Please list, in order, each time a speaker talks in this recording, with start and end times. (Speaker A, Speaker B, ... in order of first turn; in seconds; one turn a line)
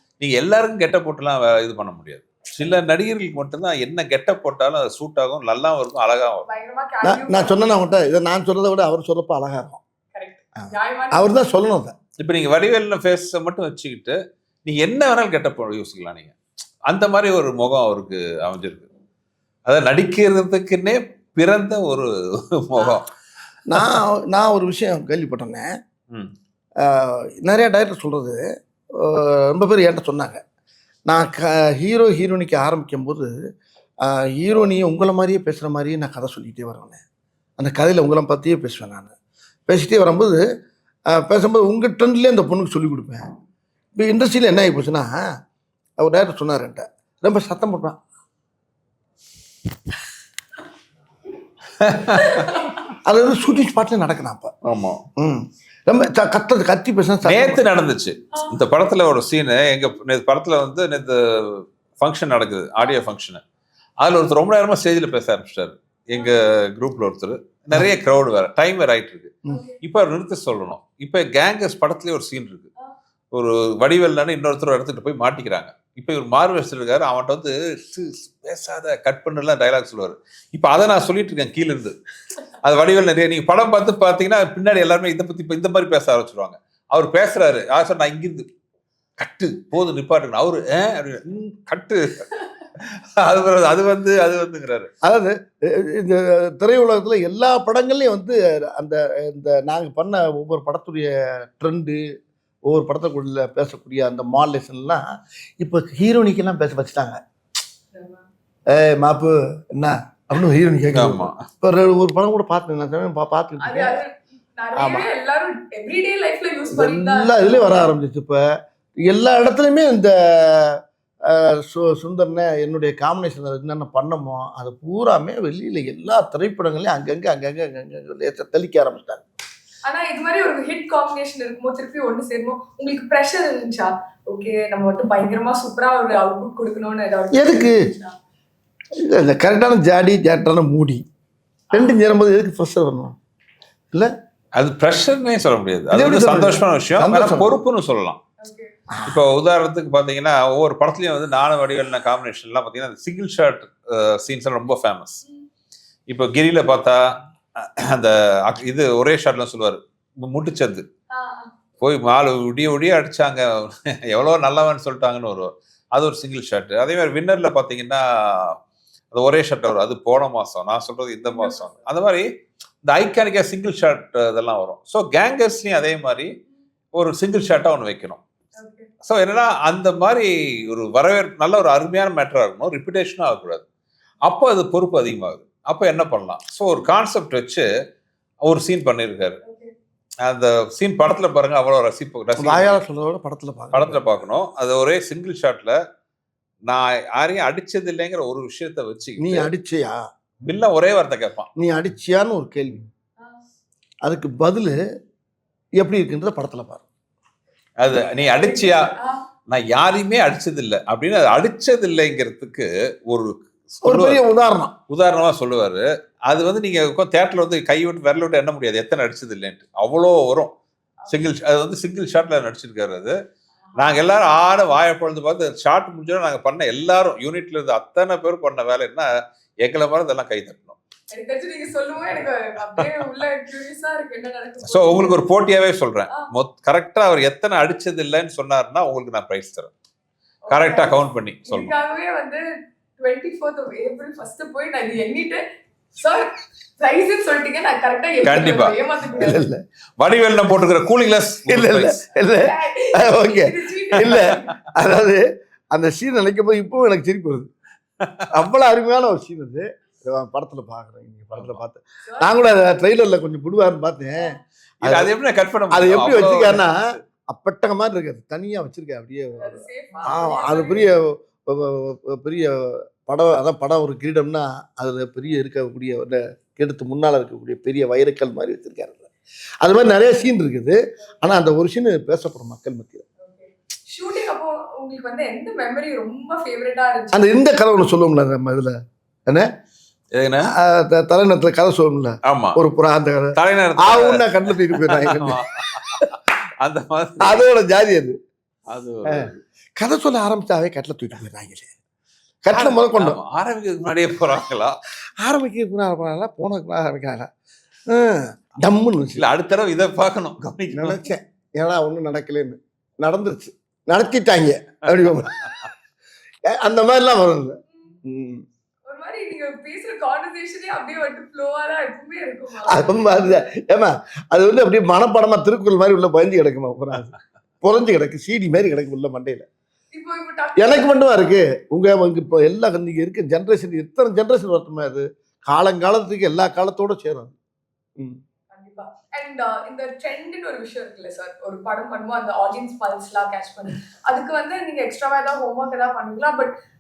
Speaker A: 0.2-6.5
Speaker B: 6.5-7.7
Speaker C: 7.0-9.8
Speaker B: 10.1-11.4
Speaker C: 10.6-11.9
Speaker A: 12.2-18.9
Speaker A: 19.7-23.1
Speaker C: 23.7-25.7
Speaker A: 23.8-24.0
Speaker C: 26.8-28.4
Speaker C: 29.0-30.4
Speaker C: 31.1-33.4
Speaker C: 34.0-37.0
Speaker C: 37.6-39.1
Speaker C: 39.7-40.4
Speaker C: 41.1-43.3
Speaker C: 44.0-45.4
Speaker C: 46.0-48.0
Speaker A: 51.8-52.6
Speaker B: 52.2-52.7
Speaker C: 53.0-54.5
Speaker A: 54.6-55.0
Speaker C: 55.2-57.6
Speaker A: 57.2-63.4
Speaker B: 58.3-58.6
Speaker A: 64.0-72.7
Speaker B: 66.2-66.4
Speaker B: 69.5-69.8
Speaker A: 73.3-82.0
Speaker A: 82.6-88.5
Speaker A: 89.2-94.9
Speaker C: 95.0-102.0
Speaker C: 102.7-105.0
Speaker C: 105.6-107.2
Speaker B: 107.9-108.2
Speaker C: 108.7-114.0
Speaker A: 110.9-111.5
Speaker B: 113.6-117.9
Speaker C: 114.8-115.1
Speaker C: 116.7-118.4
Speaker C: 119.0-129.2
Speaker B: 129.8-138.1
Speaker C: 137.3-137.8
Speaker C: 139.0-141.0
Speaker B: 141.7-142.0
Speaker C: 141.7-143.2
Speaker A: 144.6-148.2
Speaker C: 145.9-147.6
Speaker B: 148.4-148.7
Speaker C: 148.9-149.2
Speaker A: 149.1-155.2
Speaker A: 156.1-160.8
Speaker B: 161.1-161.5
Speaker A: 161.8-168.6
Speaker A: 169.1-172.3
Speaker B: 171.3-171.8
Speaker A: 172.8-176.4
Speaker A: 176.9-178.2
Speaker B: 178.6-178.9
Speaker A: 179.0-183.6
Speaker A: 184.2-187.7
Speaker A: 188.4-189.4
Speaker B: 189.4-189.7
Speaker A: 190.2-192.8
Speaker C: 192.4-194.0
Speaker A: 193.7-195.8
Speaker A: 196.7-199.5
Speaker C: 199.2-200.0
Speaker A: 200.4-201.5
Speaker C: 201.6-202.8
Speaker C: 204.1-204.8
Speaker C: 205.8-206.9
Speaker A: 207.8-208.9
Speaker B: 208.1-209.2
Speaker A: 209.5-214.2
Speaker C: 213.8-214.7
Speaker A: 214.9-220.5
Speaker A: 221.1-223.2
Speaker B: 223.7-224.2
Speaker A: 223.8-229.1
Speaker A: 229.6-230.8
Speaker B: 231.1-235.2
Speaker A: 234.7-239.7
Speaker B: 240.4-242.4
Speaker A: 240.5-241.7
Speaker B: 243.0-245.4
Speaker B: 246.0-249.5
Speaker A: 248.2-248.8
Speaker C: 249.2-249.6
Speaker A: 250.0-252.1
Speaker C: 251.5-257.5
Speaker B: 252.4-254.5
Speaker A: 258.0-258.3
Speaker C: 258.3-265.1
Speaker A: 261.4-261.6
Speaker B: 262.1-262.4
Speaker A: 264.8-267.0
Speaker C: 265.7-279.1
Speaker B: 269.4-270.9
Speaker C: 279.6-283.1
Speaker B: 283.2-287.3
Speaker C: 287.1-288.8
Speaker A: 290.1-290.5
Speaker C: 290.5-296.1
Speaker A: 292.2-292.6
Speaker A: 293.3-297.4
Speaker C: 297.2-298.1
Speaker A: 298.7-299.4
Speaker C: 299.1-301.7
Speaker C: 302.4-303.2
Speaker A: 302.5-304.8
Speaker C: 305.2-307.3
Speaker C: 307.9-309.2
Speaker A: 309.2-311.0
Speaker C: 310.7-315.5
Speaker C: 316.5-318.4
Speaker B: 318.9-323.0
Speaker C: 322.7-329.5
Speaker B: 329.9-330.9
Speaker C: 330.6-337.4
Speaker B: 338.5-346.5